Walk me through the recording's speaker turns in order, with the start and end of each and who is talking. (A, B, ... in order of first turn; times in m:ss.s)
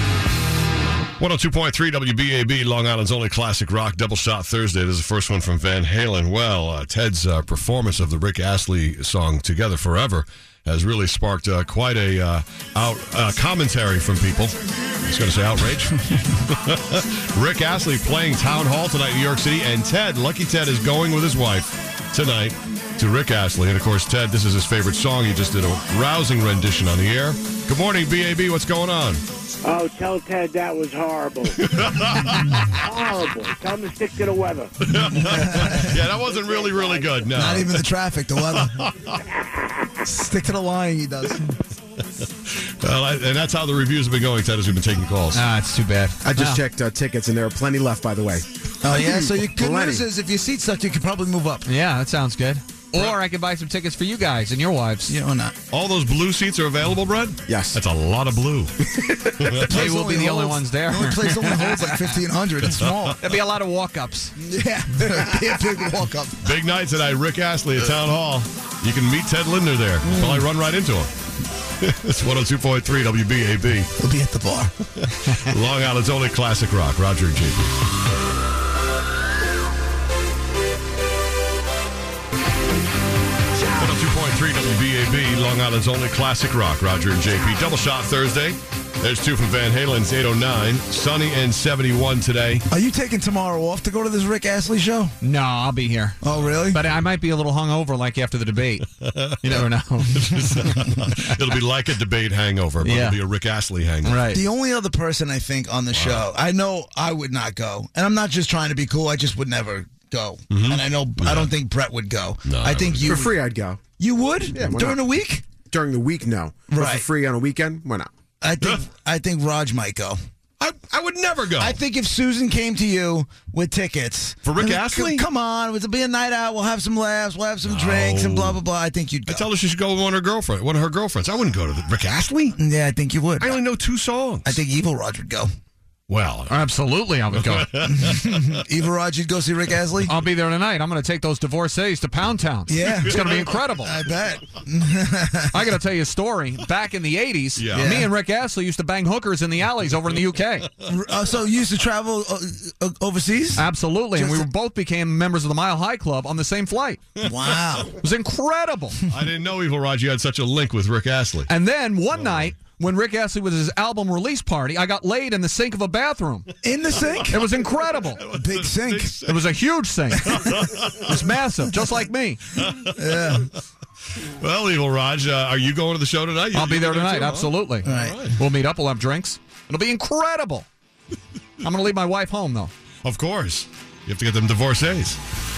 0:01.2-0:29.2 A
0:29.6-0:31.5 B
0:31.6-0:32.7 A
0:32.9-0:34.7 B
0:34.8-0:37.8 A
0:35.1-0:36.0 C
0:37.3-0:38.8 C
0:38.5-0:39.2 A
0:40.0-0:41.4 C
0:42.8-0:45.4 A
0:45.3-0:46.6 D
0:46.2-0:48.4 E
0:48.8-0:51.6 C
0:49.1-0:50.0 E
0:51.6-0:55.1 D
0:55.1-0:55.6 C
0:55.7-0:58.7 A
0:57.5-0:57.8 E
0:58.8-0:59.1 E
0:59.3-0:59.9 A
0:59.5-1:03.2 C
0:59.7-1:02.2 D
1:02.7-1:03.1 A
1:03.2-1:04.3 D
1:04.4-1:06.5 C
1:06.4-1:11.1 A
1:10.0-1:10.5 C
1:11.8-1:13.9 A
1:14.0-1:14.7 C
1:15.0-1:17.7 A
1:23.8-1:32.6 A
1:32.7-1:35.2 C
1:35.2-1:38.8 D
1:36.2-1:36.8 C
1:36.2-1:36.6 A
1:39.0-1:44.2 A
1:39.4-1:41.1 D
1:42.8-1:43.2 D
1:44.0-1:44.4 D
1:44.3-1:53.4 C
1:45.9-1:46.3 A
1:50.5-1:51.5 A
1:52.4-1:53.3 A
1:53.1-1:53.8 E
1:54.0-1:55.4 C
1:54.5-1:55.0 E
1:55.7-1:58.1 E
1:56.7-1:57.1 C
1:58.4-2:00.2 C
2:00.6-2:01.8 A
2:01.6-2:09.5 C
2:04.4-2:05.2 A
2:07.6-2:08.6 A
2:09.3-2:12.6 A
2:12.6-2:13.6 C
2:13.4-2:14.6 A
2:14.4-2:15.5 C
2:16.1-2:16.6 A
2:16.5-2:17.7 D
2:17.3-2:18.6 A
2:17.8-2:20.1 C
2:20.0-2:24.0 D
2:22.7-2:25.7 C
2:22.9-2:23.6 A
2:25.5-2:30.7 D
2:27.6-2:28.0 A
2:27.7-2:28.1 C
2:30.9-2:34.5 C
2:33.6-2:37.0 D
2:37.2-2:38.0 C
2:38.0-2:39.0 D
2:39.1-2:41.5 A
2:41.5-2:46.5 D
2:42.2-2:42.5 A
2:46.6-2:47.5 C
2:47.0-2:49.5 A
2:47.3-2:48.2 D
2:48.3-2:49.1 C
2:49.2-2:50.5 D
2:50.1-2:51.2 A
2:51.0-2:52.4 D
2:52.5-2:53.6 A
2:52.9-2:53.5 C
2:54.2-2:58.4 A
2:56.5-3:00.7 D
2:57.8-2:58.3 C
3:01.6-3:02.7 D
3:03.0-3:05.2 A